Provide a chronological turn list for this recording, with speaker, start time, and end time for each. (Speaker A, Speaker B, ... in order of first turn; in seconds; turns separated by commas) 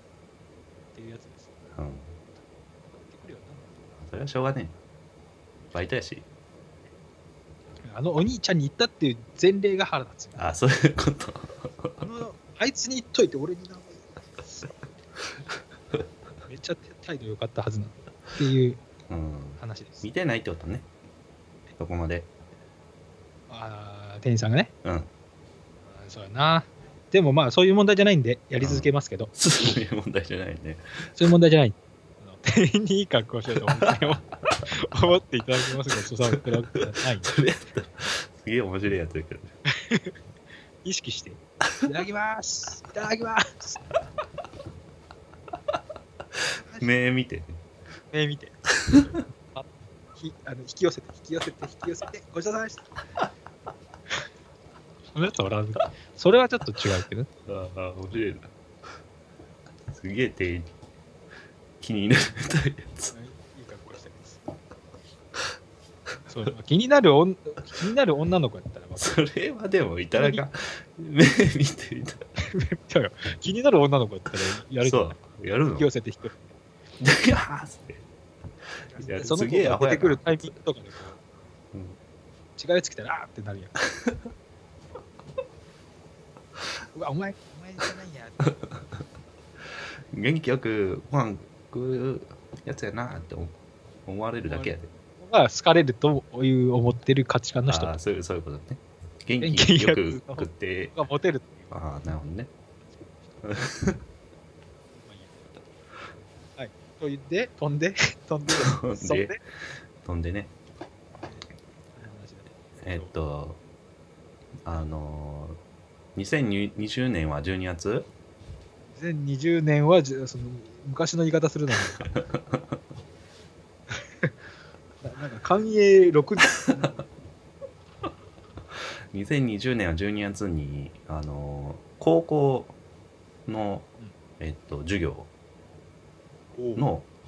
Speaker A: 0.9-1.5, Speaker B: 1.8-2.2, Speaker A: 3.0-3.7, Speaker B: 4.0-4.8, Speaker B: 5.7-6.2, Speaker A: 7.8-10.5, Speaker B: 10.3-12.1, Speaker A: 12.0-14.7, Speaker A: 16.5-18.8, Speaker B: 19.1-20.9, Speaker A: 19.6-20.1, Speaker B: 21.8-22.3, Speaker A: 23.5-24.7, Speaker B: 24.8-25.1, Speaker A: 25.9-29.3, Speaker B: 28.6-31.1, Speaker A: 31.1-37.3, Speaker B: 33.5-34.2, Speaker B: 37.2-39.5, Speaker A: 39.8-40.1, Speaker A: 40.8-43.9, Speaker B: 46.7-47.6, Speaker A: 48.1-52.9, Speaker A: 55.1-57.3, Speaker B: 57.5-58.5, Speaker B: 59.9-60.7, Speaker B: 61.8-63.1, Speaker A: 63.1-64.4, Speaker A: 66.3-69.2, Speaker B: 69.0-72.2, Speaker A: 70.1-70.4, Speaker A: 72.4-75.2, Speaker B: 74.8-75.9, Speaker A: 75.7-76.5, Speaker B: 77.0-78.0, Speaker A: 78.9-81.2, Speaker B: 78.9-80.5, Speaker B: 81.7-82.0, Speaker A: 82.6-83.8, Speaker A: 86.9-88.5, Speaker B: 88.4-88.8, Speaker B: 90.1-94.9, Speaker A: 94.4-98.0, Speaker B: 97.7-100.9, Speaker A: 99.4-101.7, Speaker B: 101.7-102.5, Speaker A: 102.9-103.5, Speaker B: 103.4-104.0, Speaker A: 105.0-105.9, Speaker A: 106.6-109.4, Speaker B: 108.5-109.4, Speaker B: 110.0-110.5, Speaker A: 111.2-113.1, Speaker B: 112.8-113.6, Speaker B: 114.6-115.6, Speaker B: 116.2-118.1, Speaker A: 118.9-122.1, Speaker B: 122.0-122.6, Speaker A: 123.9-124.3, Speaker A: 125.0-127.0, Speaker B: 129.1-132.8, Speaker B: 133.5-135.3, Speaker A: 136.6-136.8, Speaker B: 136.8-137.1